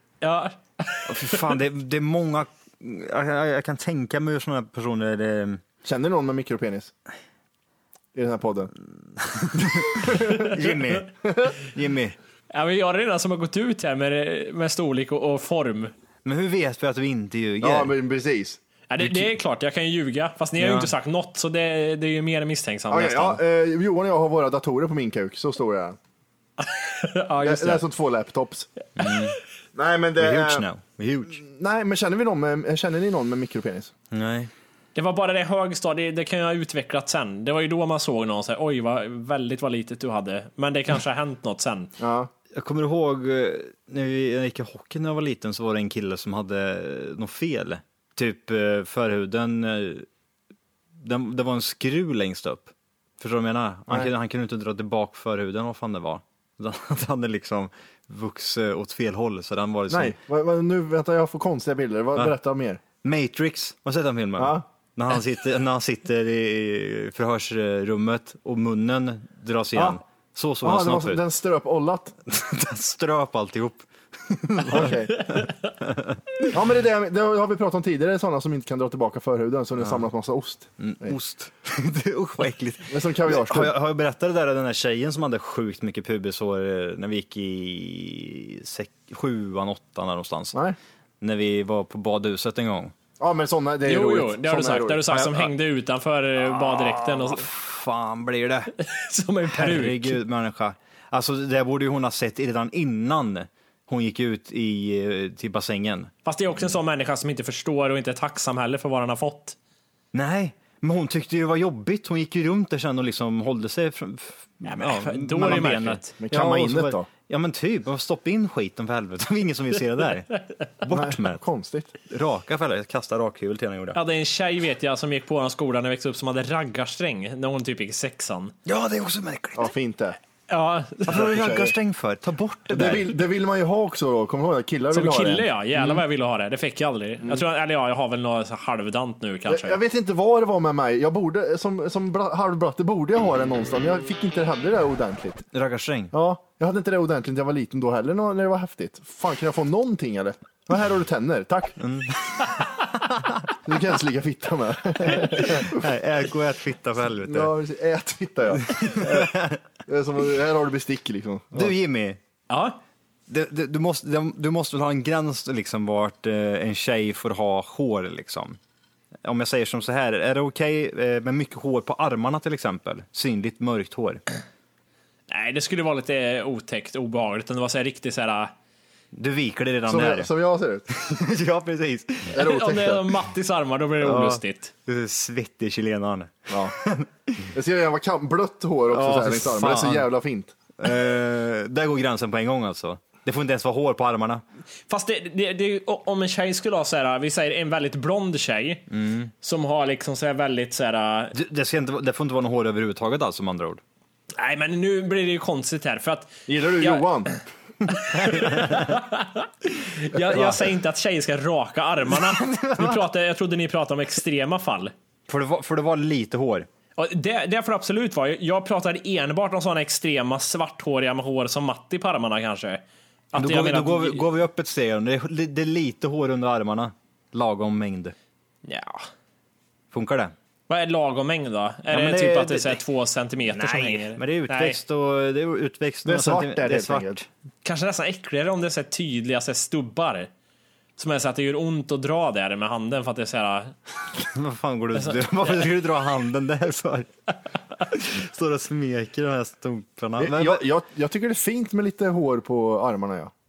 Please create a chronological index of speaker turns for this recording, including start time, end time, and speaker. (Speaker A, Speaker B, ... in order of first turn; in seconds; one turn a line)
Speaker A: 0.2-1.5
Speaker B: 1.1-5.6
Speaker C: 5.8-6.9
Speaker C: 8.2-8.7
Speaker B: 9.2-11.1
Speaker C: 10.0-10.5
Speaker B: 11.6-12.2
Speaker A: 12.5-15.9
Speaker B: 16.2-17.9
Speaker C: 17.6-18.6
Speaker A: 18.9-23.4
Speaker B: 19.0-19.3
Speaker B: 20.6-20.9
Speaker C: 22.9-26.0
Speaker A: 26.6-27.8
Speaker C: 27.4-28.7
Speaker B: 29.0-29.4
Speaker C: 29.8-30.6
Speaker B: 30.2-31.4
Speaker C: 31.3-33.9
Speaker B: 34.1-34.5
Speaker A: 35.0-41.9
Speaker C: 42.0-42.3
Speaker B: 42.5-50.1
Speaker B: 51.0-60.1
Speaker C: 59.9-62.8
Speaker B: 63.0-71.2
Speaker C: 64.4-64.7
Speaker C: 70.6-72.1
Speaker B: 72.3-76.4
Speaker C: 74.7-75.3
Speaker C: 76.5-81.2
Speaker B: 80.8-90.6
Speaker C: 82.9-83.7
Speaker B: 91.2-92.9
Speaker C: 93.2-95.5
Speaker A: 93.9-97.5
Speaker B: 96.5-98.7
Speaker A: 98.8-100.2
Speaker B: 99.5-106.1
Speaker A: 106.2-109.6
Speaker B: 110.1-120.3
Speaker A: 114.6-116.2
Speaker C: 116.2-117.1
Speaker B: 120.8-121.4
Speaker C: 120.9-121.9
Speaker B: 122.1-124.0
Speaker A: 123.9-128.6
Speaker B: 128.7-129.7
Speaker C: 129.6-130.2
Speaker A: 130.5-131.2
Speaker B: 131.1-133.2
Speaker C: 131.1-131.7
Speaker C: 132.7-136.0
Speaker A: 134.9-139.8
Speaker C: 139.5-145.4
Speaker B: 145.5-146.1
Speaker C: 146.1-151.8
Speaker B: 151.8-153.5
Speaker C: 153.7-155.8
Speaker B: 155.1-157.5
Speaker C: 157.2-161.7
Speaker B: 158.7-159.6
Speaker B: 161.5-162.2
Speaker A: 162.5-162.8
Speaker B: 163.3-168.6
Speaker B: 169.2-174.2
Speaker A: 175.3-178.5
Speaker B: 179.1-180.3
Speaker C: 179.9-180.9
Speaker B: 180.9-182.5
Speaker C: 182.3-183.1
Speaker A: 182.4-184.7
Speaker B: 184.0-187.1
Speaker C: 186.5-186.8
Speaker C: 187.5-190.5
Speaker B: 188.9-190.1
Speaker B: 190.8-194.4
Speaker A: 194.9-198.8
Speaker B: 198.9-199.3
Speaker A: 199.4-201.3
Speaker B: 201.3-203.8
Speaker A: 204.4-207.4
Speaker C: 206.5-207.3
Speaker A: 207.9-214.9
Speaker B: 208.0-208.9
Speaker B: 212.1-213.0
Speaker B: 215.3-216.7
Speaker A: 217.0-224.2
Speaker B: 223.3-228.2
Speaker A: 228.7-229.0
Speaker B: 229.9-230.3
Speaker A: 230.7-234.8
Speaker B: 231.9-232.8
Speaker B: 233.5-237.3
Speaker C: 236.1-237.2
Speaker A: 237.6-240.3
Speaker A: 241.0-243.8
Speaker B: 244.2-247.1
Speaker A: 245.0-245.6
Speaker B: 247.9-250.6
Speaker C: 250.2-253.3